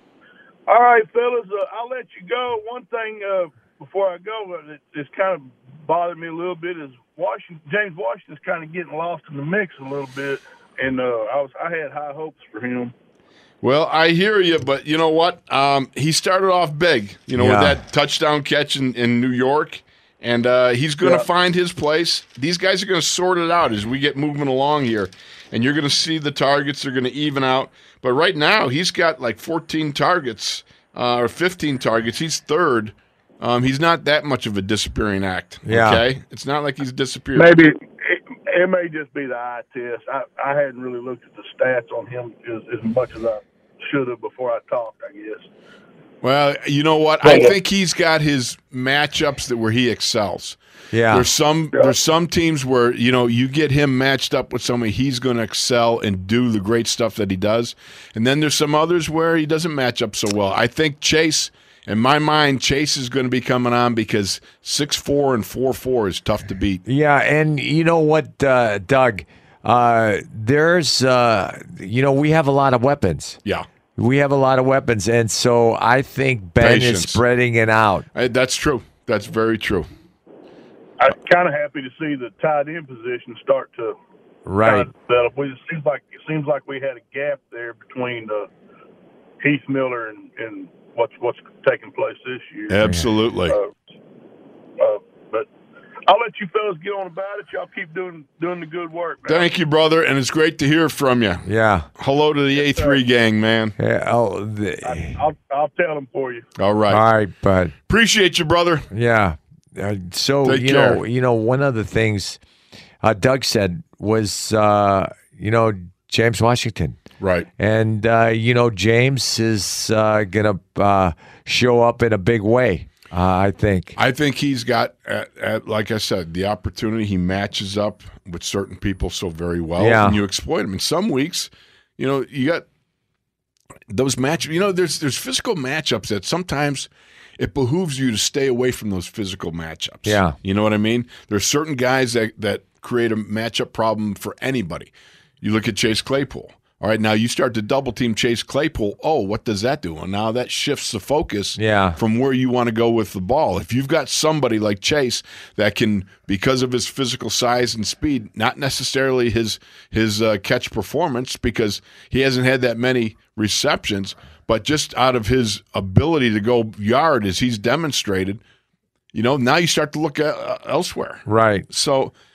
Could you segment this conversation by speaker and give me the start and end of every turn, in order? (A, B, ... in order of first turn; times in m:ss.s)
0:00.7-0:12.9 A
0:13.6-0:37.6 B
0:17.4-0:17.8 C
0:35.6-0:36.0 C
0:37.4-0:45.5 A
0:46.2-0:50.6 B
0:47.2-0:47.5 A
0:50.9-0:51.3 C
0:51.1-1:06.8 B
1:06.9-1:13.4 C
1:14.0-1:18.1 C
1:16.6-1:17.2 B
1:18.1-1:19.9 B
1:21.0-1:24.0 A
1:24.5-1:24.9 C
1:24.6-1:28.5 A
1:29.4-1:32.8 A
1:32.7-1:33.6 B
1:34.8-1:35.5 A
1:36.1-1:39.5 A
1:39.3-1:41.4 B
1:41.4-1:41.9 C
1:42.0-1:43.7 B
1:42.6-1:43.0 A
1:43.8-1:45.2 C
1:44.8-1:46.5 A
1:46.6-1:47.0 B
1:46.9-1:47.7 C
1:47.9-1:48.9 B
1:48.9-1:52.4 C
1:50.4-1:51.0 B
1:53.0-1:57.0 C
1:57.2-1:57.5 B
1:57.6-2:04.0 C
2:04.0-2:12.7 B
2:09.8-2:10.2 C
2:13.9-2:48.4 B
2:20.0-2:20.4 C
2:31.6-2:32.0 C
2:49.1-2:52.1 B
2:51.3-2:51.7 C